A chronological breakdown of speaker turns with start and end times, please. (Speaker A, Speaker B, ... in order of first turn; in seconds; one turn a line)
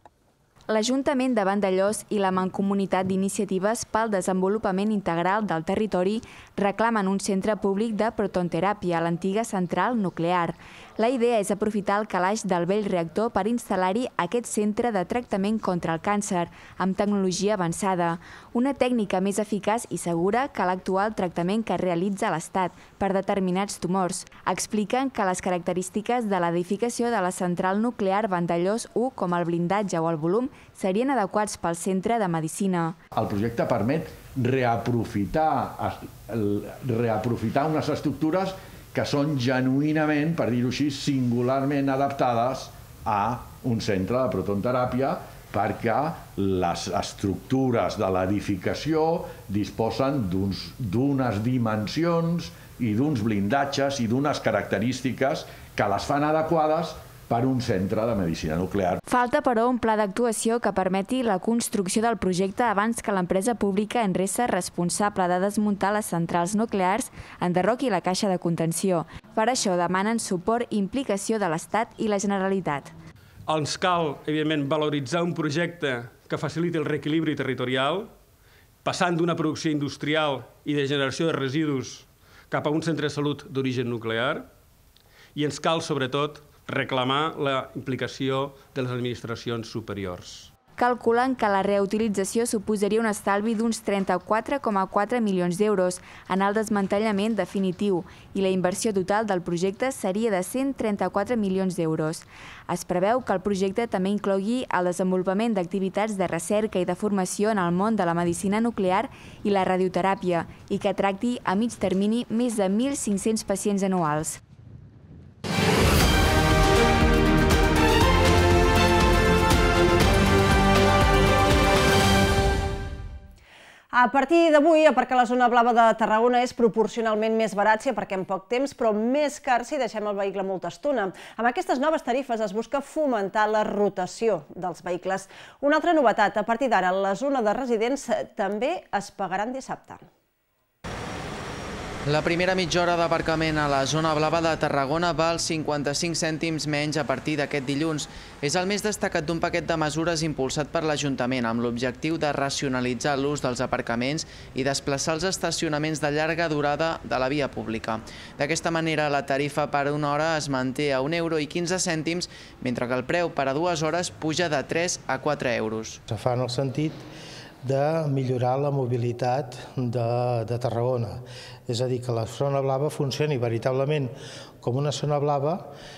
Speaker A: 0.7-33.0
Speaker B: 33.1-59.0
Speaker A: 59.1-72.9
Speaker C: 73.5-78.1
Speaker C: 78.8-84.5
Speaker C: 85.3-90.5
Speaker A: 90.8-114.4
Speaker D: 123.9-140.1
Speaker E: 142.1-166.0
Speaker F: 166.1-167.1
Speaker F: 167.6-175.7